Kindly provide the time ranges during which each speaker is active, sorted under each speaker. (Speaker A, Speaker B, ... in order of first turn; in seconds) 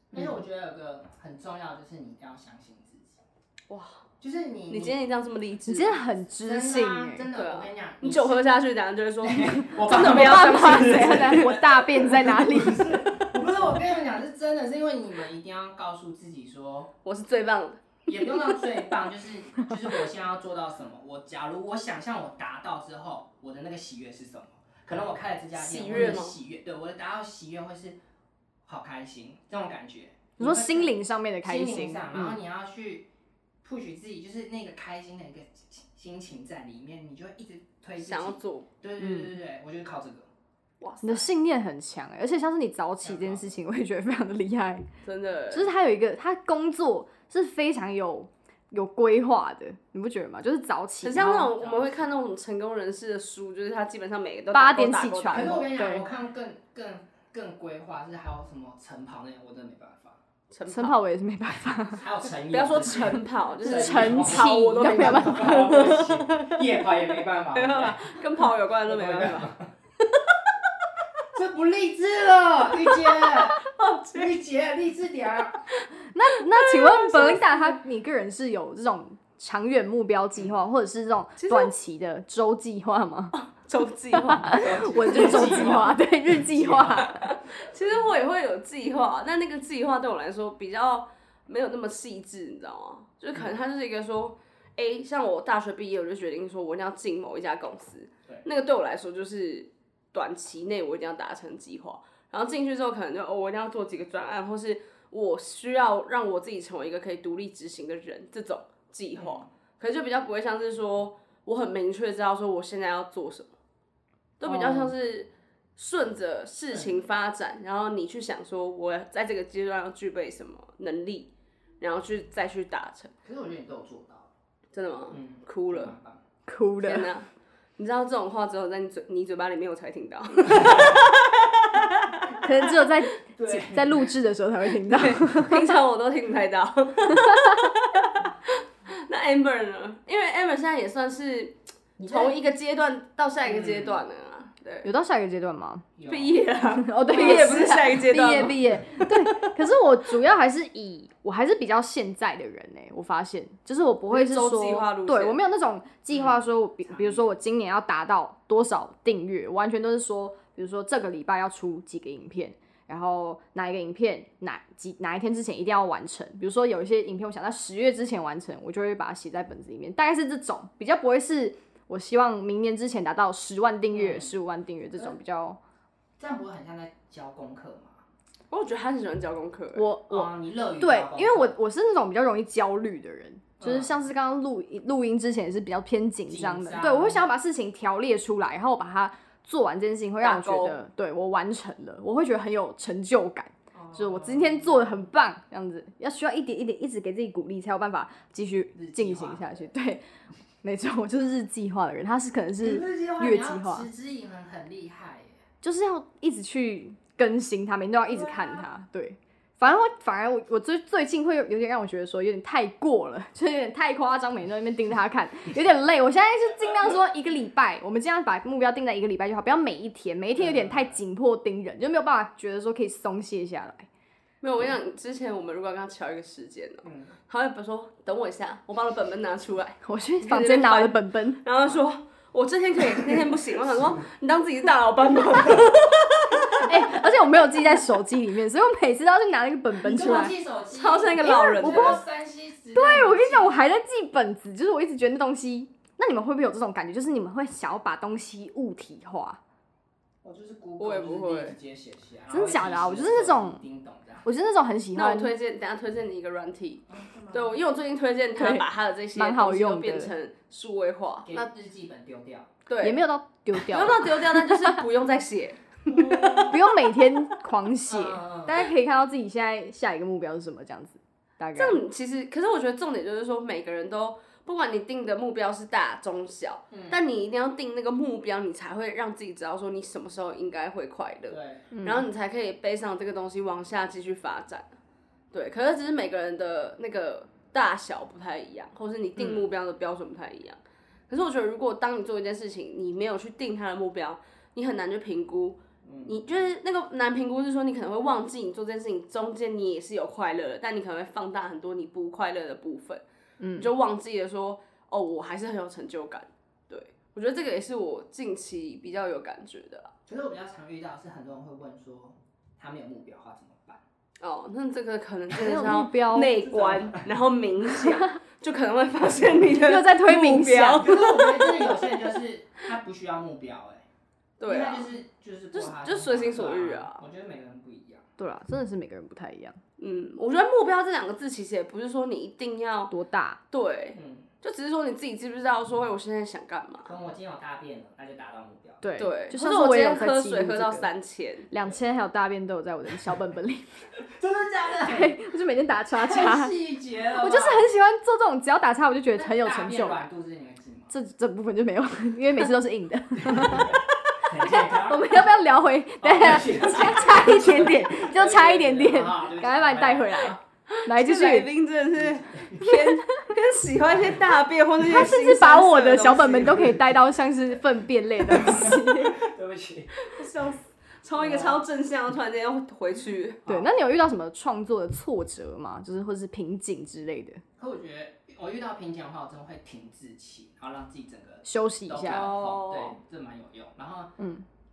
Speaker A: 0.1-3.2, 4.2-5.0, 6.4-8.4, 9.2-16.9, 18.1-28.0, 28.6-33.1, 33.6-40.3, 43.0-43.5, 51.5-52.1, 55.3-60.2, 61.9-68.2, 68.8-69.7, 71.3-75.6, 84.5-87.1, 109.2-109.5, 116.7-117.0, 123.2-124.3, 125.1-126.2, 133.3-134.1, 143.4-144.0, 145.9-146.4, 147.2-147.6, 156.1-157.2, 173.9-174.3, 176.2-178.0, 180.1-181.5, 183.6-184.0, 186.3-187.2, 193.7-195.0, 198.7-199.5, 202.6-205.4, 208.1-208.7, 220.3-221.0, 226.8-227.1, 239.8-243.6, 250.2-254.2, 256.9-257.6, 261.2-262.5, 265.9-266.6, 267.8-268.7, 276.7-277.0, 281.3-281.7, 295.8-296.2, 310.1-313.8, 316.4-317.1, 320.8-323.8, 324.4-328.1, 333.9-334.3, 336.8-338.9, 344.1-345.2, 346.0-347.7, 349.1-350.9, 353.2-355.2, 356.0-360.4, 361.9-362.8, 363.9-364.2, 366.4-366.8, 368.2-369.9, 371.2-371.6, 377.6-384.1
Speaker B: 3.7-4.0, 4.7-6.0, 7.3-11.5, 17.0-18.5, 25.5-26.4, 38.0-38.7, 40.8-41.3, 45.0-45.7, 51.0-55.6, 60.5-61.0, 62.5-66.6, 67.5-69.5, 70.1-70.3, 72.8-74.3, 76.5-77.7, 81.4-81.7, 83.3-85.7, 87.0-113.5, 114.4-121.3, 121.8-123.1, 124.7-125.9, 126.8-132.4, 134.9-144.9, 146.1-148.6, 154.1-155.4, 178.5-179.9, 190.2-190.8, 224.4-236.7, 240.7-242.0, 250.8-251.6, 254.9-261.5, 262.7-263.0, 263.5-266.4, 271.5-284.7, 285.3-303.0, 303.5-309.9, 314.2-321.7, 324.4-324.9, 325.5-327.0, 329.8-332.9, 333.5-336.9, 339.0-341.5, 360.7-366.7, 370.0-373.6, 382.1-383.0
Speaker C: 5.7-7.3, 9.9-13.0, 25.9-26.2, 30.4-32.4, 39.0-39.3, 41.0-44.9, 45.5-51.5, 54.5-56.1, 60.7-62.0, 63.6-65.9, 76.1-83.3, 84.1-87.3, 114.4-114.9, 126.5-127.1, 132.4-135.7, 137.1-137.7, 144.8-145.9, 146.7-175.6, 179.7-200.0, 200.6-203.9, 205.6-223.9, 229.8-231.4, 236.5-240.3, 241.2-242.0, 242.7-249.4, 252.3-253.6, 254.2-255.3, 258.4-260.1, 262.8-264.8, 266.4-271.8, 281.7-282.1, 303.4-303.7, 315.3-316.3, 319.6-320.9, 328.2-329.6, 332.9-333.4, 338.8-340.9, 341.5-343.8, 344.8-346.5, 347.1-350.1, 350.9-361.5, 362.6-363.0, 364.8-369.2, 373.5-377.4, 381.4-382.3, 384.2-384.4